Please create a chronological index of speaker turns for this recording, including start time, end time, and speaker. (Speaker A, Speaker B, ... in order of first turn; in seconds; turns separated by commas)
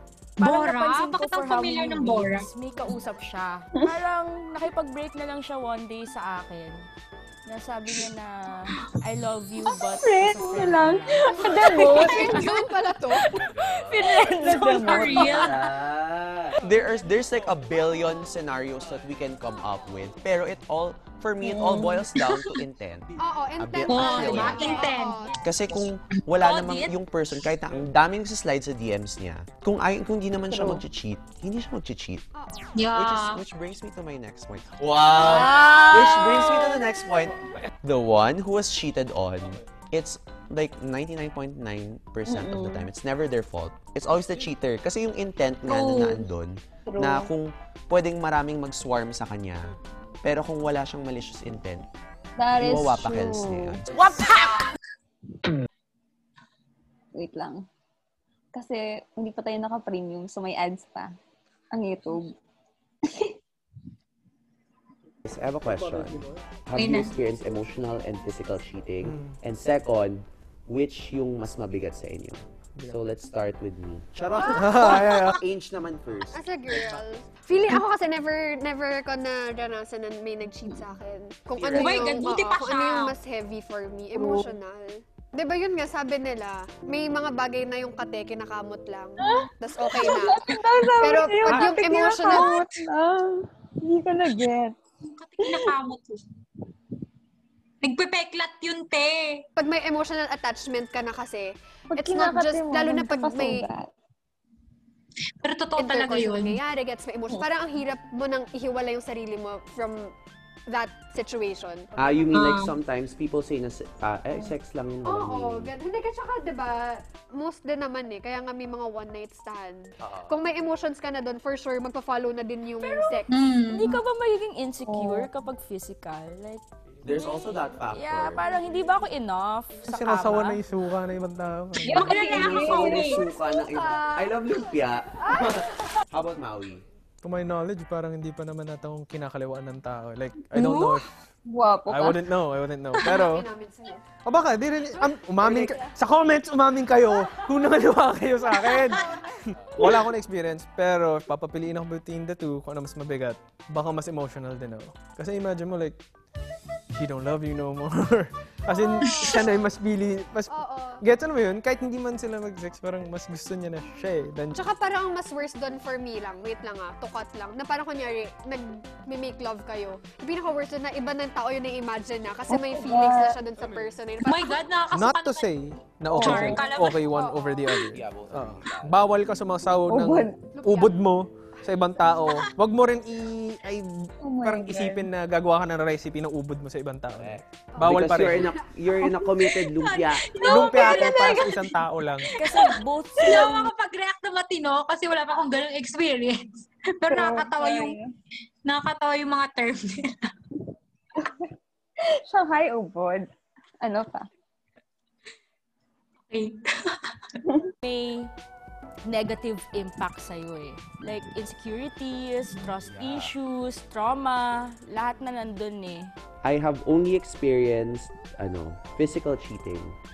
Speaker A: 0.4-2.5, Speaker B: 0.4-6.8, Speaker B: 7.5-12.1, Speaker C: 10.0-12.5, Speaker D: 11.3-13.4, Speaker A: 11.3-13.5, Speaker E: 13.3-24.8, Speaker C: 13.9-15.5, Speaker A: 14.0-15.6, Speaker C: 21.4-22.1, Speaker A: 22.2-22.6, Speaker D: 23.2-25.4, Speaker A: 23.9-25.4, Speaker E: 25.4-32.3, Speaker A: 26.3-26.9, Speaker C: 30.5-30.8, Speaker D: 32.4-32.7, Speaker A: 32.8-33.4, Speaker E: 32.9-51.9, Speaker B: 35.3-36.6, Speaker C: 42.3-42.9, Speaker A: 45.7-46.3, Speaker C: 46.9-47.3, Speaker C: 52.4-53.8, Speaker E: 52.6-54.3, Speaker C: 57.1-57.6, Speaker C: 58.5-61.1, Speaker C: 61.7-62.3, Speaker E: 65.3-76.8, Speaker A: 66.8-67.1, Speaker F: 69.0-69.4, Speaker D: 74.4-74.9, Speaker F: 74.5-75.4, Speaker D: 76.3-92.5, Speaker E: 81.6-82.2, Speaker A: 81.7-83.1, Speaker C: 84.2-84.5, Speaker C: 89.2-94.8, Speaker A: 92.3-92.8, Speaker A: 95.0-96.2, Speaker C: 95.4-95.7, Speaker A: 97.8-99.5, Speaker D: 99.6-103.7, Speaker C: 101.9-103.9, Speaker A: 105.4-106.6, Speaker D: 105.8-110.1, Speaker D: 110.7-111.9, Speaker E: 112.0-115.7, Speaker A: 112.3-112.7, Speaker D: 115.1-123.3, Speaker E: 120.0-120.4, Speaker B: 122.8-123.2, Speaker A: 123.3-124.0, Speaker B: 123.7-130.6, Speaker C: 124.9-125.3, Speaker E: 127.0-128.5, Speaker F: 129.8-132.2, Speaker C: 131.8-133.2, Speaker A: 131.9-133.3, Speaker E: 132.1-136.8, Speaker D: 132.5-135.7, Speaker F: 137.2-141.1, Speaker C: 141.5-142.2, Speaker F: 141.9-143.5, Speaker D: 143.0-144.1, Speaker F: 144.2-156.0, Speaker D: 145.0-145.8, Speaker D: 148.6-149.2, Speaker F: 156.9-164.7, Speaker D: 158.7-159.7, Speaker D: 160.5-161.0, Speaker D: 164.6-174.6, Speaker C: 172.5-173.4, Speaker A: 174.2-175.5, Speaker F: 174.9-188.6, Speaker A: 176.1-177.1, Speaker C: 176.1-176.6, Speaker D: 176.5-177.9, Speaker E: 177.9-179.0, Speaker C: 179.9-180.4, Speaker D: 180.6-181.1, Speaker D: 182.0-182.2, Speaker C: 184.2-185.1, Speaker E: 187.1-191.1, Speaker D: 187.8-188.6, Speaker A: 189.4-191.8, Speaker F: 190.4-192.4, Speaker A: 192.4-198.0, Speaker B: 192.4-193.7, Speaker C: 193.2-193.5, Speaker C: 197.1-198.1, Speaker A: 198.7-200.3, Speaker C: 201.2-201.4, Speaker C: 202.3-203.3, Speaker C: 203.8-204.3, Speaker A: 206.3-207.2, Speaker B: 207.8-208.3, Speaker B: 209.1-216.1, Speaker E: 213.0-213.3, Speaker E: 216.4-220.0